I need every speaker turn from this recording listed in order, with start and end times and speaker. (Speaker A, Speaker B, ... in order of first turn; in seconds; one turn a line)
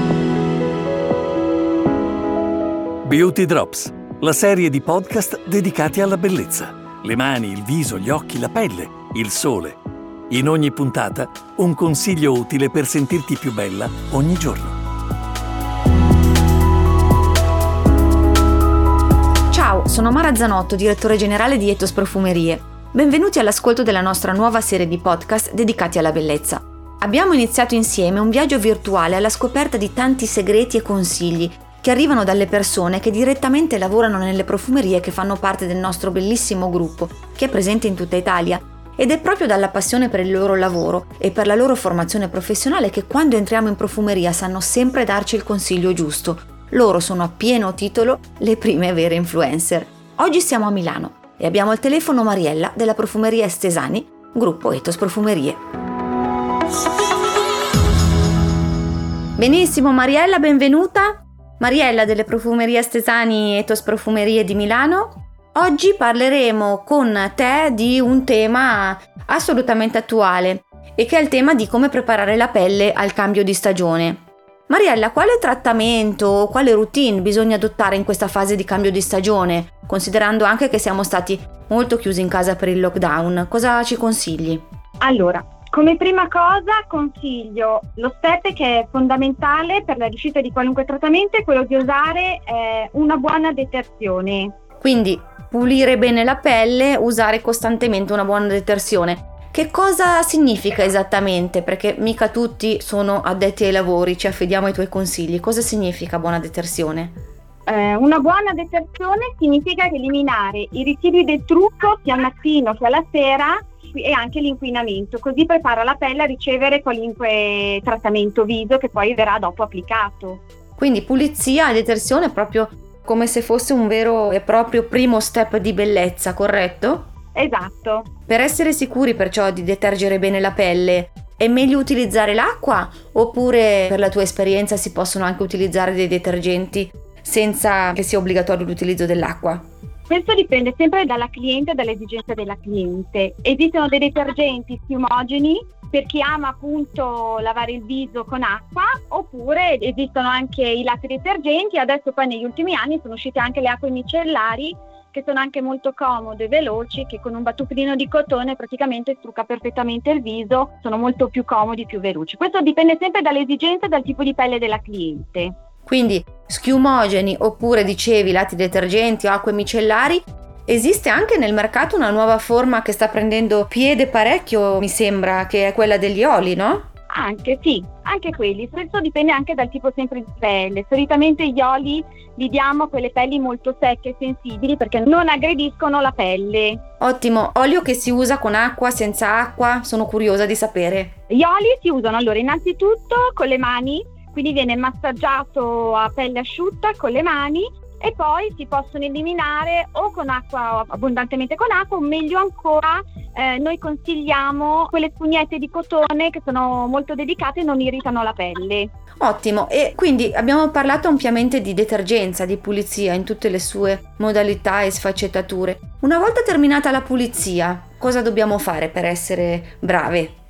Speaker A: 3.0-9.8
Speaker A: 10.3-14.8
Speaker B: 19.5-55.6
Speaker B: 59.4-84.7
Speaker C: 85.0-94.5
Speaker B: 94.8-107.2
Speaker C: 107.7-120.4
Speaker B: 120.8-127.1
Speaker C: 127.3-128.1
Speaker B: 128.3-139.7
Speaker C: 140.1-165.5
Speaker B: 165.9-176.9
Speaker C: 177.1-186.8
Speaker B: 187.0-191.1
Speaker C: 191.3-208.9
Speaker B: 209.2-220.3